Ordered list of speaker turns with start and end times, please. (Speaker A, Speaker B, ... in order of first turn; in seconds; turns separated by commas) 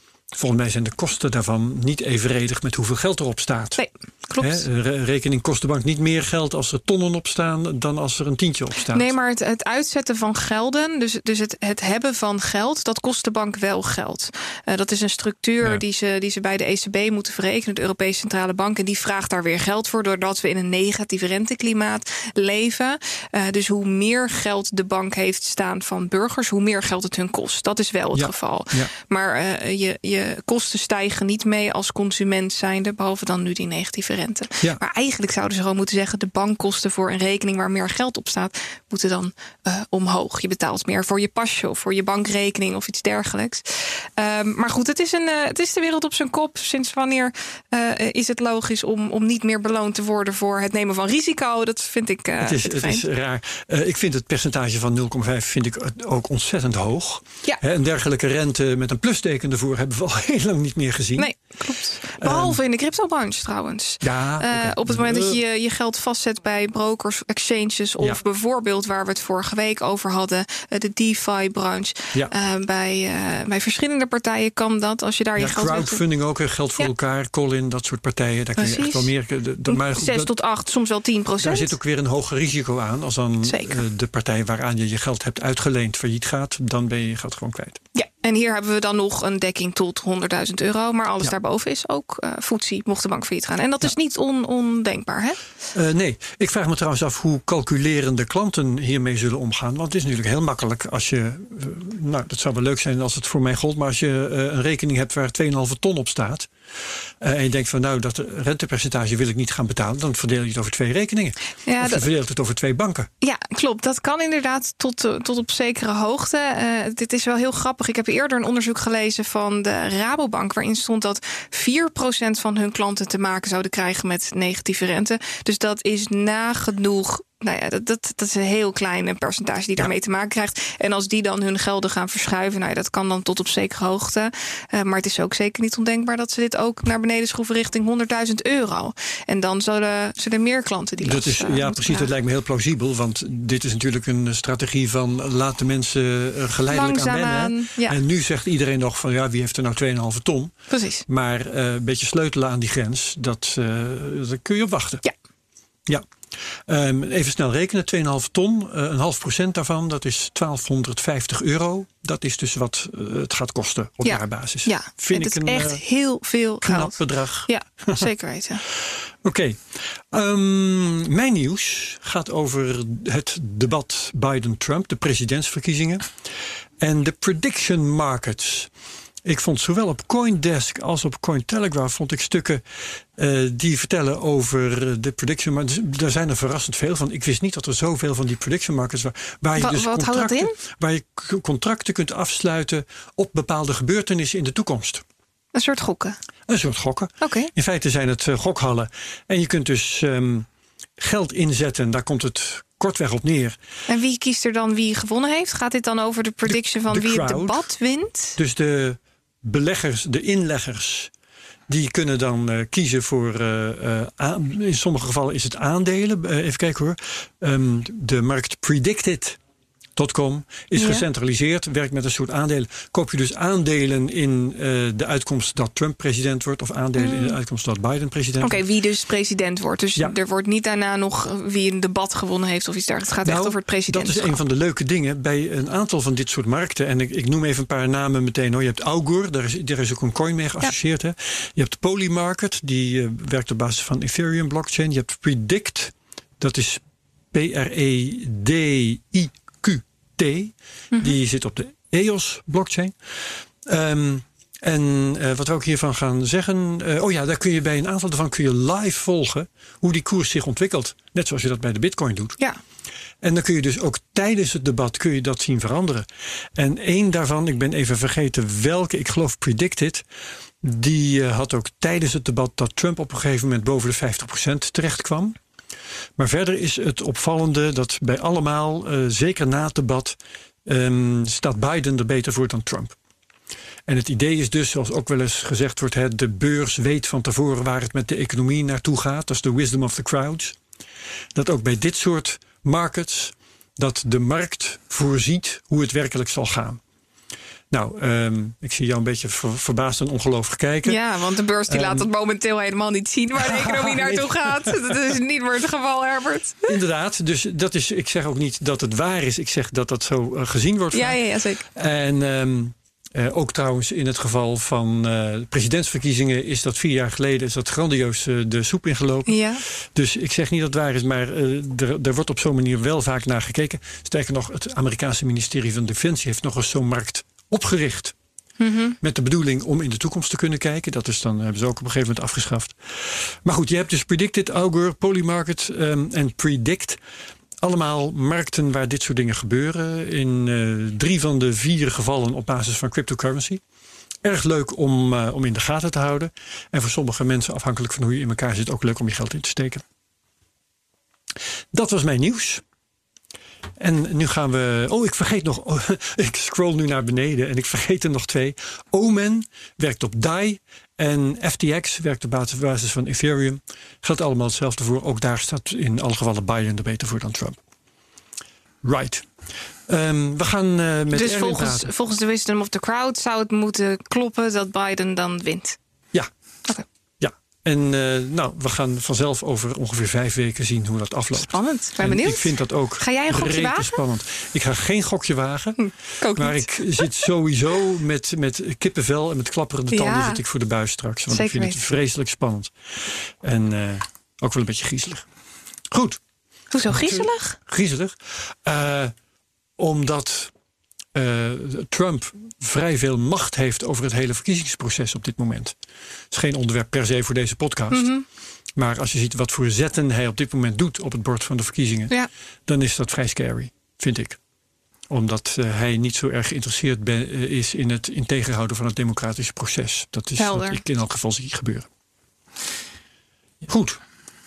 Speaker A: 0.3-3.8, Speaker B: 3.8-4.6, Speaker A: 4.4-9.1, Speaker B: 8.9-53.0, Speaker A: 28.1-28.9, Speaker A: 52.4-61.4, Speaker B: 61.2-76.0, Speaker A: 62.2-62.6, Speaker A: 64.0-65.4, Speaker A: 75.4-80.3, Speaker B: 78.6-79.1, Speaker B: 79.7-81.8, Speaker A: 81.4-87.8, Speaker B: 83.4-83.8, Speaker B: 87.9-95.4, Speaker A: 95.7-106.5, Speaker A: 107.2-113.1, Speaker B: 111.7-112.0, Speaker B: 113.2-142.1, Speaker A: 141.0-150.5, Speaker B: 146.7-148.0, Speaker B: 150.7-151.0, Speaker A: 151.1-155.0, Speaker A: 155.8-165.8, Speaker B: 164.0-168.6, Speaker A: 166.6-168.1, Speaker A: 168.7-176.3, Speaker A: 176.8-178.7, Speaker A: 179.2-195.0, Speaker B: 189.6-190.5, Speaker B: 195.5-196.2, Speaker A: 196.5-200.5, Speaker B: 197.2-197.5, Speaker A: 201.0-203.6, Speaker B: 203.9-208.3, Speaker A: 206.5-207.6, Speaker A: 208.3-211.1, Speaker A: 211.7-219.4, Speaker A: 219.9-228.6, Speaker B: 220.8-221.0, Speaker B: 227.0-227.3, Speaker B: 228.4-234.4, Speaker A: 233.2-262.4, Speaker A: 263.2-270.0, Speaker A: 270.6-275.4, Speaker A: 276.2-282.9, Speaker A: 283.9-290.6, Speaker A: 291.3-296.8, Speaker A: 297.7-301.0, Speaker B: 300.8-306.7, Speaker A: 301.7-302.1, Speaker A: 303.4-304.9, Speaker A: 306.7-328.1, Speaker B: 310.9-311.6, Speaker B: 319.3-319.6, Speaker B: 328.6-329.0, Speaker A: 329.0-337.0, Speaker A: 337.6-343.6, Speaker A: 344.2-349.8, Speaker A: 351.7-352.6, Speaker A: 353.8-367.6, Speaker A: 368.8-369.3, Speaker A: 369.9-371.9, Speaker B: 371.1-375.8, Speaker A: 377.2-385.8, Speaker B: 381.3-384.0, Speaker B: 385.8-387.1, Speaker A: 386.3-395.2, Speaker B: 389.9-390.4, Speaker B: 391.3-391.8, Speaker A: 395.9-396.2, Speaker B: 396.7-397.6, Speaker A: 396.9-399.1, Speaker A: 399.8-400.5, Speaker A: 401.1-405.8, Speaker A: 406.3-408.1, Speaker B: 407.9-408.2, Speaker A: 408.8-412.1, Speaker A: 412.7-414.4, Speaker A: 415.1-421.9, Speaker B: 420.4-420.8, Speaker A: 423.7-424.0